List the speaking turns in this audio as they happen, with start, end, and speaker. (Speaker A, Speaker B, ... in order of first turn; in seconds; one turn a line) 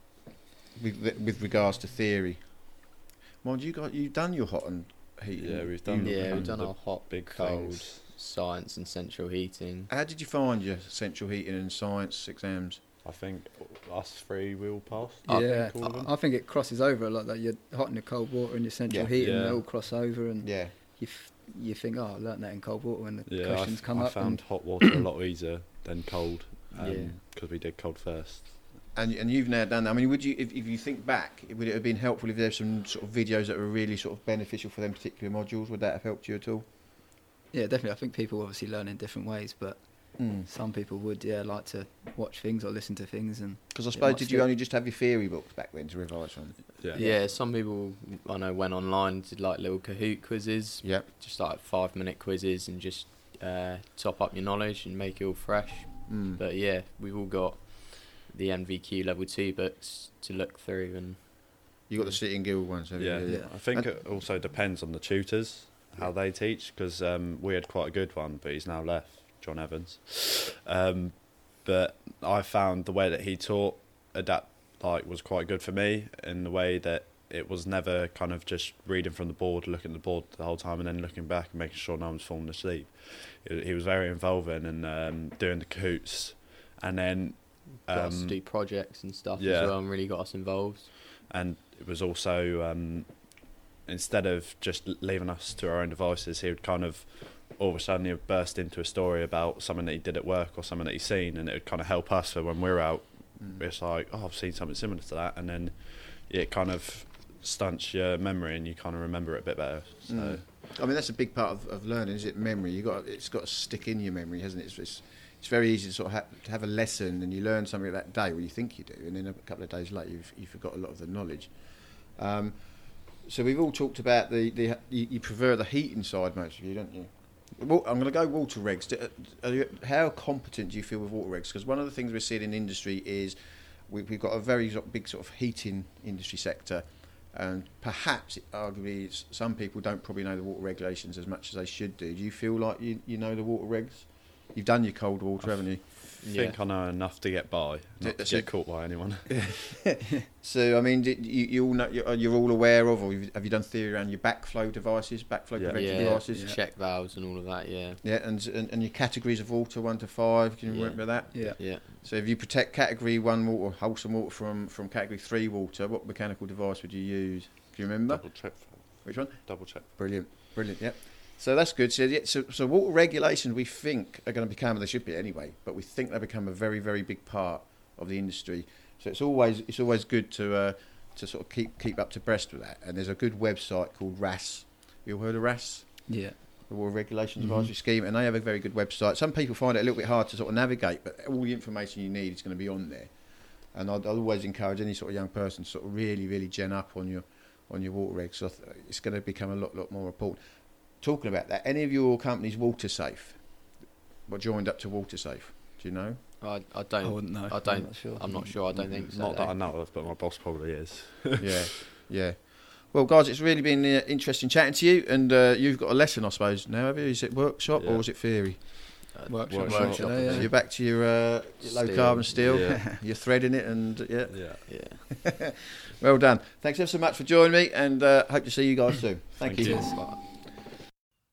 Speaker A: 0.8-6.6
Speaker B: 5.3-8.0
Speaker C: 6.0-9.9
Speaker A: 9.9-12.8
Speaker B: 13.0-16.1
Speaker C: 15.3-15.7
Speaker D: 15.3-25.0
Speaker B: 19.1-19.6
Speaker A: 20.4-20.8
Speaker B: 23.3-28.8
Speaker C: 26.7-27.1
Speaker A: 28.9-36.6
Speaker D: 37.5-44.5
Speaker A: 40.2-40.5
Speaker A: 43.7-46.7
Speaker D: 46.9-47.3
Speaker C: 47.0-62.2
Speaker A: 56.1-56.4
Speaker A: 61.9-64.0
Speaker B: 63.0-88.7
Speaker C: 87.7-90.9
Speaker B: 89.4-89.7
Speaker B: 91.2-110.5
Speaker A: 103.4-103.7
Speaker A: 110.1-145.9
Speaker B: 145.4-149.6
Speaker C: 146.2-146.6
Speaker A: 148.0-156.5
Speaker B: 155.6-155.9
Speaker C: 155.7-158.0
Speaker D: 156.0-156.6
Speaker A: 158.0-206.2
Speaker C: 160.7-162.0
Speaker D: 161.3-161.6
Speaker B: 168.1-169.9
Speaker D: 186.1-186.4
Speaker D: 187.4-187.7
Speaker C: 206.4-209.6
Speaker D: 207.0-208.6
Speaker B: 208.7-211.8
Speaker A: 211.4-219.1
Speaker B: 217.8-218.7
Speaker C: 219.1-220.7
Speaker D: 219.3-220.5
Speaker B: 219.5-220.1
Speaker A: 219.9-230.4
Speaker C: 221.6-222.7
Speaker B: 222.5-222.8
Speaker B: 224.3-224.6
Speaker C: 224.7-225.1
Speaker B: 229.4-230.0
Speaker C: 229.6-230.2
Speaker D: 229.6-230.0